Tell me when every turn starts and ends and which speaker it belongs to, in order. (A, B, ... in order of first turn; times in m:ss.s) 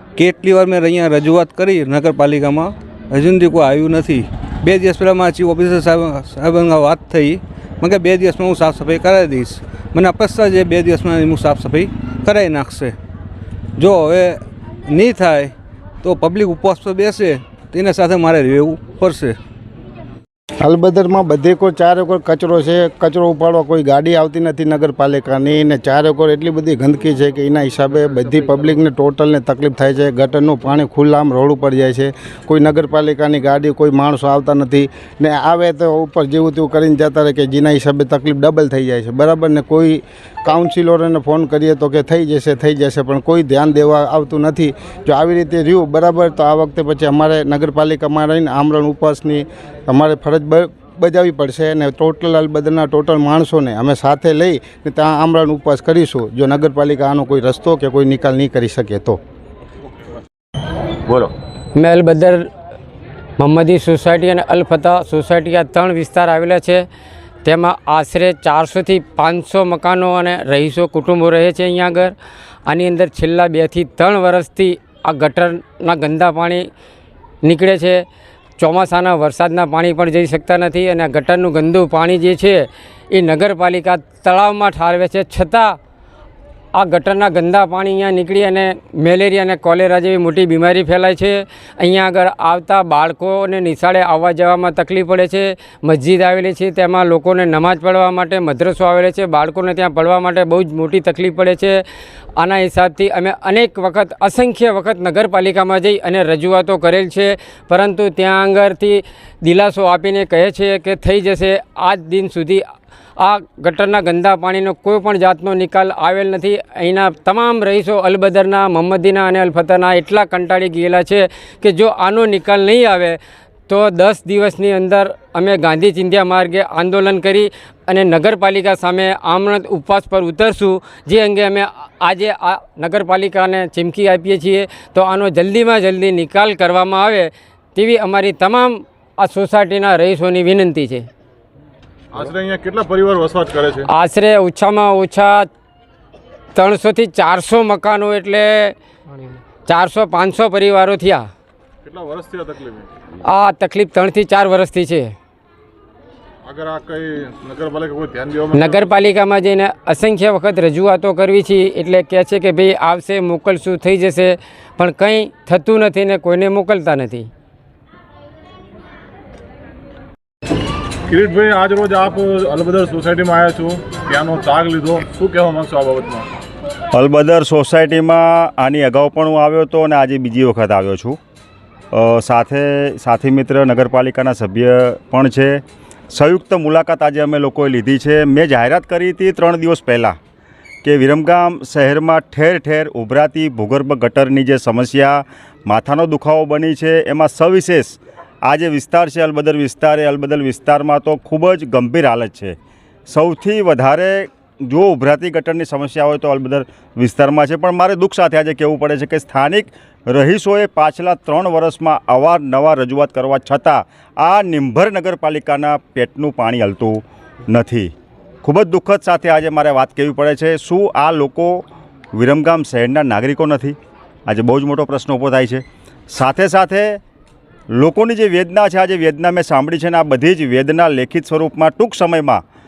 0:00.2-0:12.9 A
0:13.8-0:19.4 A
0:20.6-0:59.2 B
1:01.7-1:02.4 C
1:03.4-1:06.8 C
1:07.4-1:12.1 C
1:12.7-1:16.6 C
1:17.4-1:18.0 C
1:18.6-1:25.8 C
1:26.8-1:41.8 C
1:42.4-1:52.6 C
1:53.2-2:03.2 C
2:03.7-2:21.1 C
2:22.1-2:23.8 D
2:23.9-2:25.5 C
2:26.5-2:28.8 C
2:29.6-2:31.3 C
2:31.8-2:32.9 D
2:33.2-2:35.2 C
2:36.4-2:39.0 D
2:38.6-2:47.3 C
2:51.1-2:56.3 D
2:56.9-3:01.2 E
3:01.9-3:10.2 E
3:10.8-3:22.6 E
3:23.1-3:37.9 E
3:38.4-3:43.8 E
3:44.3-3:47.0 E
3:47.7-3:52.4 E